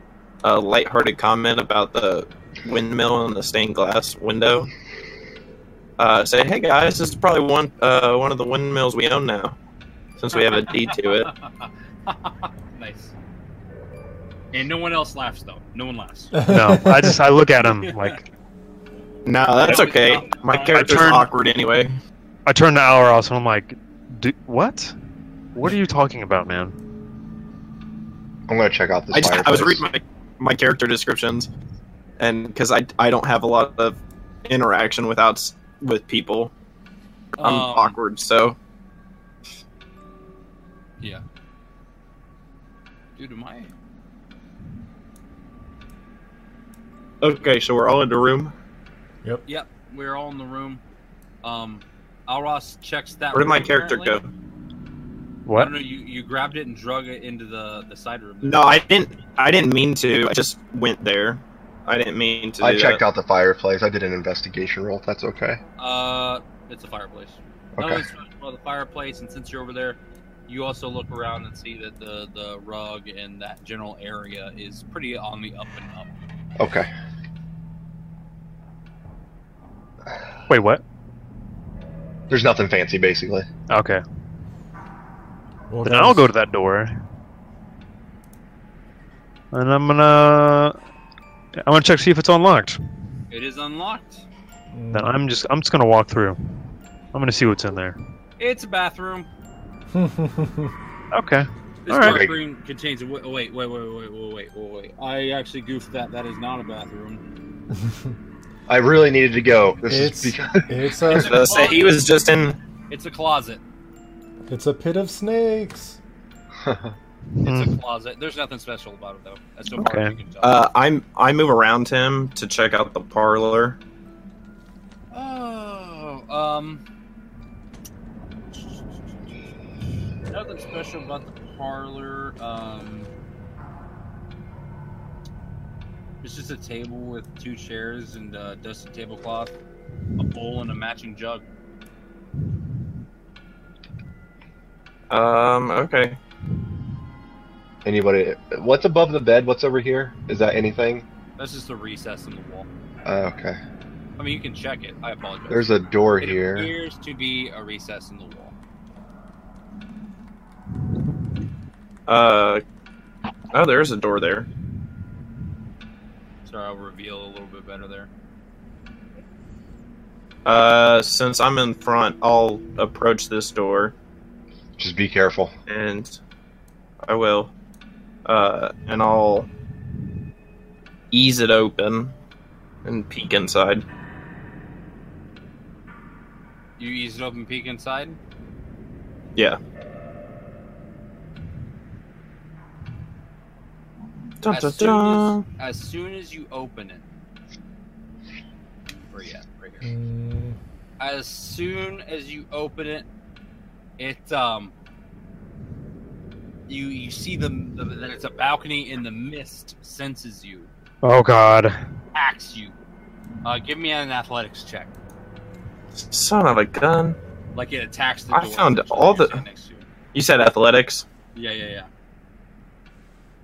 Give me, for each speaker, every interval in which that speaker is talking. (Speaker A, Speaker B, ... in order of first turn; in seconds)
Speaker A: 0.4-4.7, 6.0-9.6, 10.2-11.3, 19.3-22.0, 29.1-31.5, 32.2-36.5, 37.4-38.6, 47.2-48.5, 53.3-54.3, 58.4-63.0, 111.1-112.6, 120.4-123.8, 145.1-146.2, 162.1-162.6, 163.5-164.5, 170.4-173.9, 175.7-176.2, 177.1-177.5, 178.2-179.5, 181.1-182.2, 182.8-183.8, 194.4-195.5, 215.9-217.2, 218.3-219.4, 220.1-221.1
Speaker B: 10.3-13.1, 14.5-16.4, 17.8-18.2, 19.6-20.9, 37.4-38.0, 43.2-43.7, 49.5-50.8, 51.4-54.2, 55.5-58.8, 65.8-76.1, 93.3-94.2, 98.4-99.3, 101.9-107.2, 111.1-112.0, 112.9-113.6, 117.4-120.6, 125.1-126.8, 128.5-129.0, 130.3-133.1, 136.2-139.5, 140.2-141.4, 151.4-152.7, 154.2-155.7, 156.2-158.5, 166.5-168.1, 186.8-188.2, 194.5-197.1, 199.0-199.9, 201.0-203.1, 204.0-204.7, 206.7-210.7, 212.1-212.8, 213.4-214.9, 217.6-219.9, 221.3-221.9
Speaker C: 16.3-17.2, 85.7-86.3, 94.7-95.2, 99.9-100.8, 107.8-108.1, 109.9-111.3, 114.5-116.0, 199.8-200.6
Speaker D: 16.5-18.3, 20.7-21.3, 22.5-24.9, 25.6-26.8, 55.5-55.7, 80.5-80.8, 83.7-84.0, 85.8-87.0, 89.5-90.8, 91.7-92.8, 94.9-96.4, 97.1-98.0, 101.1-102.2, 117.4-117.7, 119.8-120.1, 211.0-211.8
Speaker E: 28.5-29.9, 62.6-65.6, 67.8-68.0, 76.6-76.9, 82.3-83.5, 102.0-102.4, 108.7-111.0, 116.6-117.0, 147.8-151.1, 153.1-153.6, 155.5-156.7, 174.8-175.5